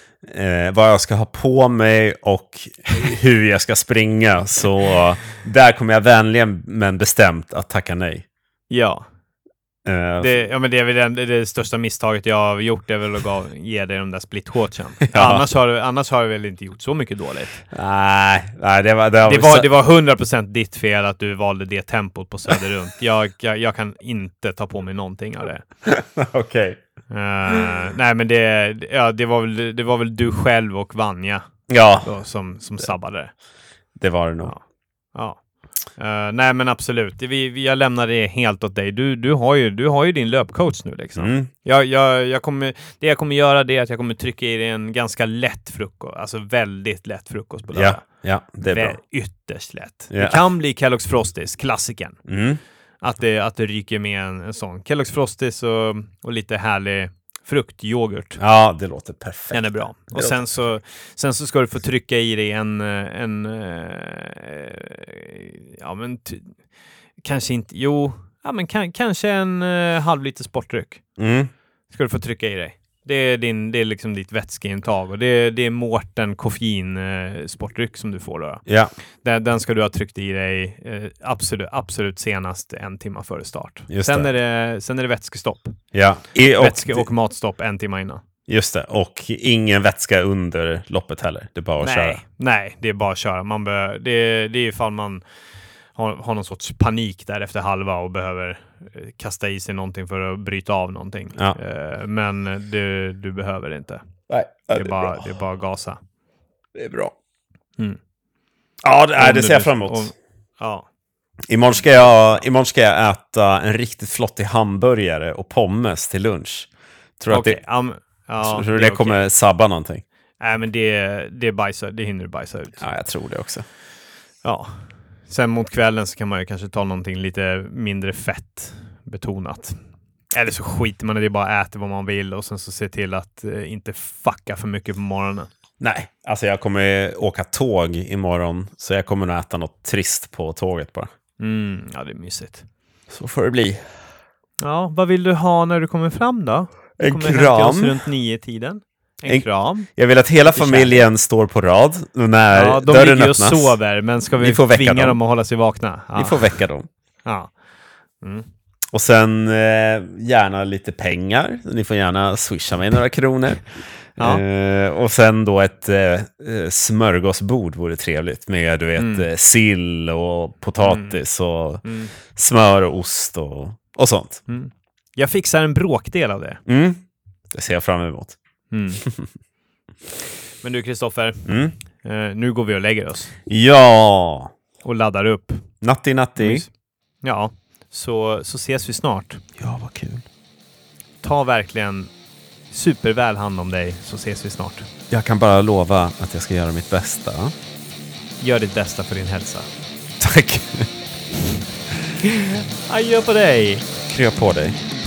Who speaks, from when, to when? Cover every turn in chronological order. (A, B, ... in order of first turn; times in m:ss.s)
0:00.2-0:08.2 A
0:08.7-0:09.1 B
0:09.8-0:10.4 A
0:10.2-0:17.7 B
0:15.0-0:15.4 A
0:17.7-0:19.7 A
0:19.2-0:25.7 B
0:25.8-0:26.8 A
0:27.1-0:31.5 B
0:27.5-0:27.7 A
0:31.7-0:32.1 A
0:32.0-0:33.3 B
0:34.0-0:34.6 A
0:36.0-0:48.0 B
0:41.2-0:41.5 A
0:47.7-0:49.0 A
0:48.6-0:52.2 B
0:50.1-0:50.4 A
0:52.3-0:52.6 A
0:53.0-0:58.4 B
0:58.4-1:00.4 A
0:59.5-1:06.6 B
1:07.2-1:11.0 B
1:11.2-1:11.5 A
1:11.9-1:18.6 B
1:18.7-1:18.9 A
1:19.2-1:25.8 B
1:23.9-1:24.3 A
1:25.9-1:27.1 A
1:26.6-1:28.2 B
1:28.5-1:32.2 A
1:31.8-1:35.2 B
1:36.0-1:44.0 B
1:44.3-1:45.3 A
1:44.8-1:46.0 B
1:46.8-1:47.2 A
1:48.8-1:50.1 A
1:49.2-1:50.9 B
1:51.5-1:56.7 A
1:51.8-1:52.1 B
1:57.2-1:57.6 A
1:57.3-1:59.3 B
1:58.4-2:00.0 A
2:00.4-2:02.8 B
2:02.8-2:03.6 A
2:04.4-2:04.7 B
2:05.3-2:09.8 B
2:10.3-2:15.5 B
2:15.8-2:21.1 A
2:21.4-2:22.7 B
2:23.1-2:23.9 A
2:24.6-2:29.9 B
2:27.0-2:28.0 A
2:29.3-2:33.8 A
2:30.4-2:31.0 B
2:32.5-2:36.6 B
2:34.4-2:35.2 A
2:36.2-2:36.9 A
2:37.2-2:37.5 B
2:38.2-2:38.5 B
2:38.9-2:54.4 A
2:44.2-2:44.4 B
2:49.0-2:49.3 B
2:50.8-2:51.2 B
2:51.8-2:52.1 B
2:54.5-2:56.6 B
2:56.7-2:58.4 A
2:58.7-2:59.0 B
3:00.6-3:03.3 B
3:01.5-3:01.8 A
3:03.5-3:04.5 A
3:04.8-3:05.6 B
3:05.8-3:06.6 A
3:06.4-3:06.7 B
3:07.2-3:09.4 B
3:09.6-3:10.2 A
3:11.2-3:12.1 B
3:12.7-3:14.9 B
3:15.1-3:17.5 A
3:18.4-3:19.7 B
3:20.2-3:20.9 A
3:22.2-3:23.9 B
3:24.1-3:24.8 A